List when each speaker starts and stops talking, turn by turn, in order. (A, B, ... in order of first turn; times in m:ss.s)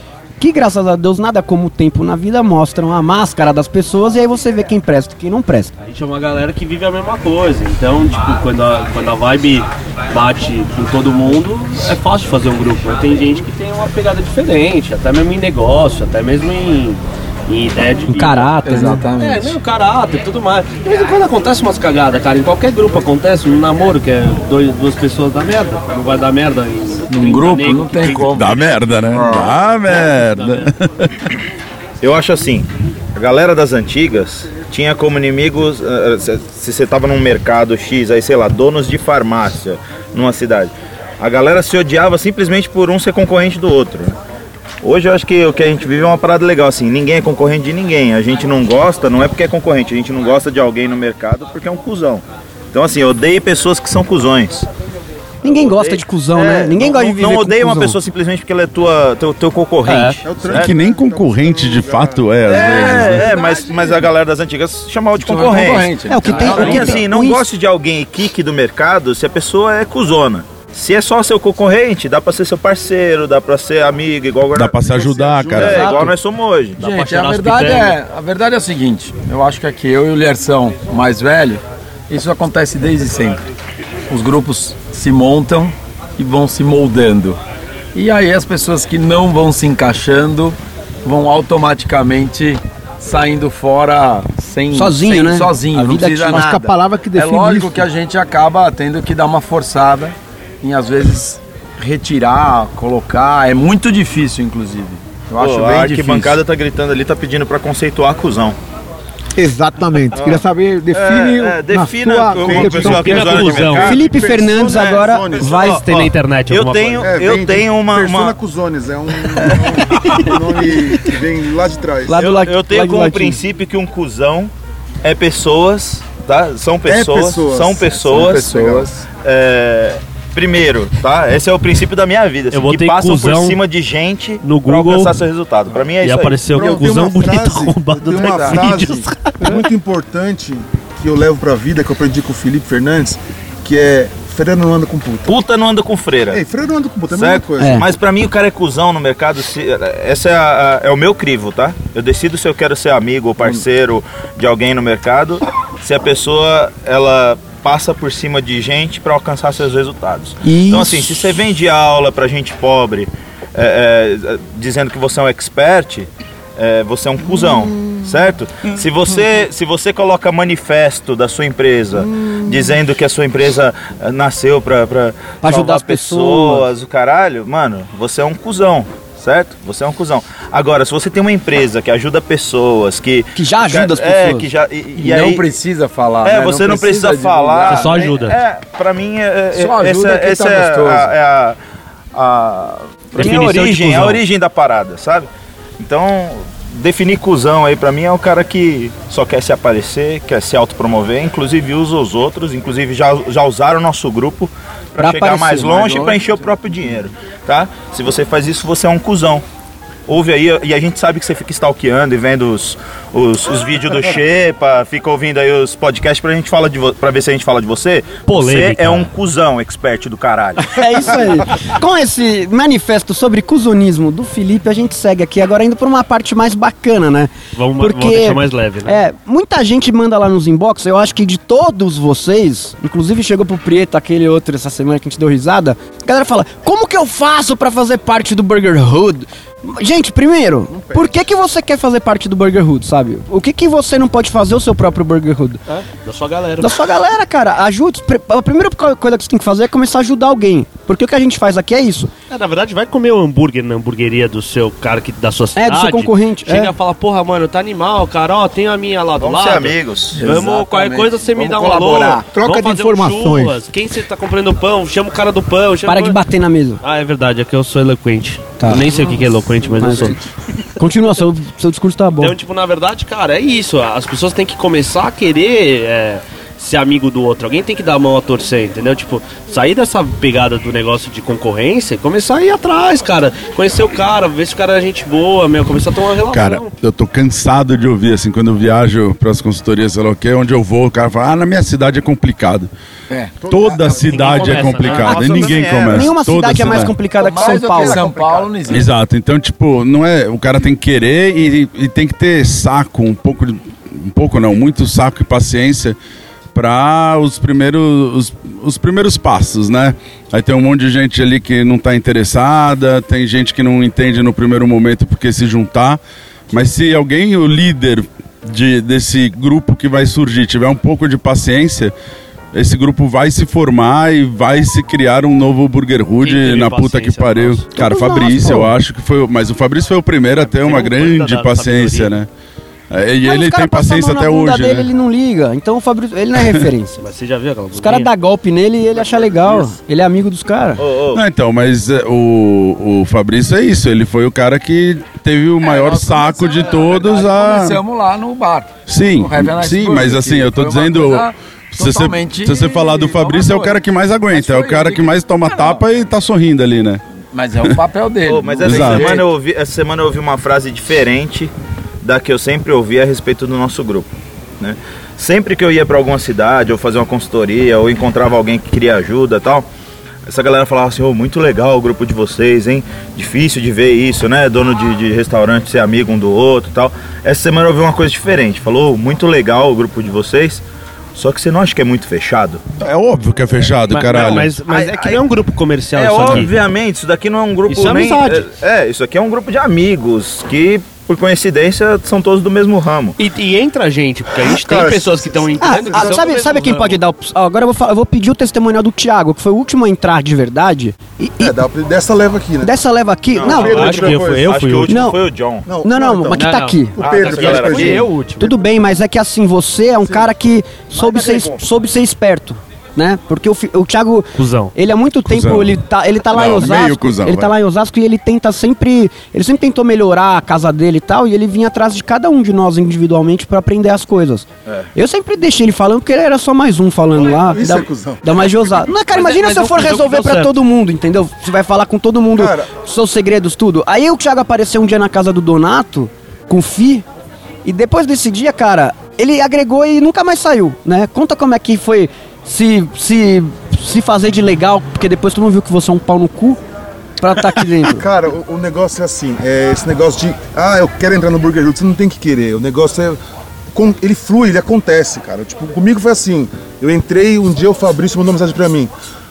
0:00.4-0:05.7 A
0:05.8-0:18.5 B
0:18.1-0:19.0 A
0:18.6-0:19.5 C
0:19.2-0:28.7 B
0:27.1-0:29.5 C
0:28.2-0:31.3 D
0:29.9-0:30.7 B
0:32.0-0:44.2 E
0:44.8-0:54.7 E
0:55.4-0:58.0 A
0:55.4-1:00.7 E
0:59.9-1:00.2 A
1:00.2-1:03.0 F
1:00.4-1:03.3 D
1:02.5-1:14.8 E
1:02.5-1:03.8 C
1:05.2-1:07.0 C
1:06.1-1:07.4 A
1:14.5-1:16.1 D
1:14.8-1:16.1 F
1:15.5-1:16.8 E
1:15.8-1:16.1 B
1:16.8-1:18.0 B
1:16.8-1:23.4 C
1:24.1-1:27.4 C
1:27.9-1:46.4 C
1:34.7-1:36.5 A
1:36.3-1:37.9 G
1:45.4-1:48.6 E
1:49.4-1:53.4 G
1:50.1-1:58.4 E
1:52.3-1:55.6 F
1:52.7-1:54.0 B
1:53.8-1:56.1 A
1:55.6-1:57.3 B
1:57.0-2:02.2 F
2:02.0-2:03.4 A
2:02.2-2:04.5 E
2:05.0-2:08.6 E
2:06.8-2:08.9 F
2:08.0-2:09.0 C
2:09.1-2:16.7 E
2:12.5-2:13.6 B
2:14.4-2:15.2 B
2:16.0-2:19.6 B
2:16.5-2:25.3 F
2:18.2-2:18.7 C
2:25.2-2:26.4 E
2:26.3-2:27.9 F
2:27.1-3:05.5 E
2:27.6-2:27.8 A
2:40.4-2:41.3 A
2:47.3-2:48.1 F
2:52.0-2:52.7 F
2:55.4-2:56.6 A
3:03.3-3:04.5 A
3:05.0-3:07.9 C
3:06.2-3:11.6 E
3:07.6-3:08.4 B
3:09.5-3:11.1 C
3:12.1-3:29.4 E
3:13.1-3:14.2 B
3:13.2-3:13.6 A
3:25.0-3:25.8 A
3:25.7-3:26.5 C
3:30.1-3:41.3 E
3:38.3-3:39.1 B
3:40.7-4:05.6 A
3:47.6-3:49.0 B
4:00.7-4:01.2 F
4:05.7-4:06.8 B
4:06.6-4:12.1 A
4:12.3-4:26.2 B
4:15.6-4:16.7 A
4:19.2-4:20.3 E
4:20.1-4:22.3 C
4:22.3-4:23.6 G
4:25.8-4:26.8 A
4:26.8-4:30.2 B
4:28.6-4:28.9 A
4:29.8-4:30.2 A
4:30.8-4:32.3 A
4:32.2-4:46.7 B
4:46.3-4:52.7 D
4:53.1-4:53.4 C
4:53.4-4:55.0 F
4:53.4-4:57.0 D
4:54.0-4:55.8 B
4:54.2-4:56.1 E
4:55.8-4:58.1 A
4:57.1-4:58.9 C
4:57.4-4:58.8 F
4:58.7-5:06.0 D
5:06.5-5:21.9 D
5:22.5-5:32.3 D
5:26.2-5:27.6 B
5:27.7-5:28.7 A
5:30.4-5:32.1 B
5:32.9-5:34.9 D
5:33.2-5:37.0 A
5:37.0-5:38.1 B
5:37.7-5:40.8 A
5:38.9-5:39.8 F
5:40.8-5:41.2 E
5:41.1-5:47.8 D
5:45.6-5:55.8 C
5:48.9-5:57.0 D
5:57.3-5:59.3 C
5:58.2-6:01.5 E
5:58.6-5:59.2 D
6:02.0-6:04.1 E
6:04.6-6:09.6 E
6:10.3-6:20.6 E
6:21.1-6:22.6 E
6:22.8-6:24.6 D
6:23.9-6:26.6 B
6:24.2-6:25.2 E
6:25.9-6:33.2 E
6:26.2-6:26.5 D
6:27.7-6:28.4 B
6:27.7-6:28.4 A
6:33.2-6:37.0 B
6:34.4-6:36.6 F
6:35.6-6:41.5 A
6:41.4-6:42.7 F
6:42.6-6:44.0 A
6:43.3-6:45.7 E
6:43.4-6:44.6 F
6:43.5-6:45.0 B
6:44.9-6:45.2 A
6:45.6-6:48.1 F
6:45.8-6:47.0 A
6:46.3-6:48.6 B
6:47.0-6:48.0 E
6:48.4-7:17.0 A
6:50.0-6:50.3 F
6:51.0-6:51.6 F
6:51.0-6:51.4 G
6:54.4-6:54.7 B
6:55.2-6:55.8 D
6:56.3-6:57.5 D
7:07.1-7:08.9 F
7:09.1-7:10.5 B
7:12.3-7:12.7 F
7:17.6-7:26.6 A
7:27.2-7:28.0 A
7:27.9-7:33.2 F
7:33.7-7:38.9 F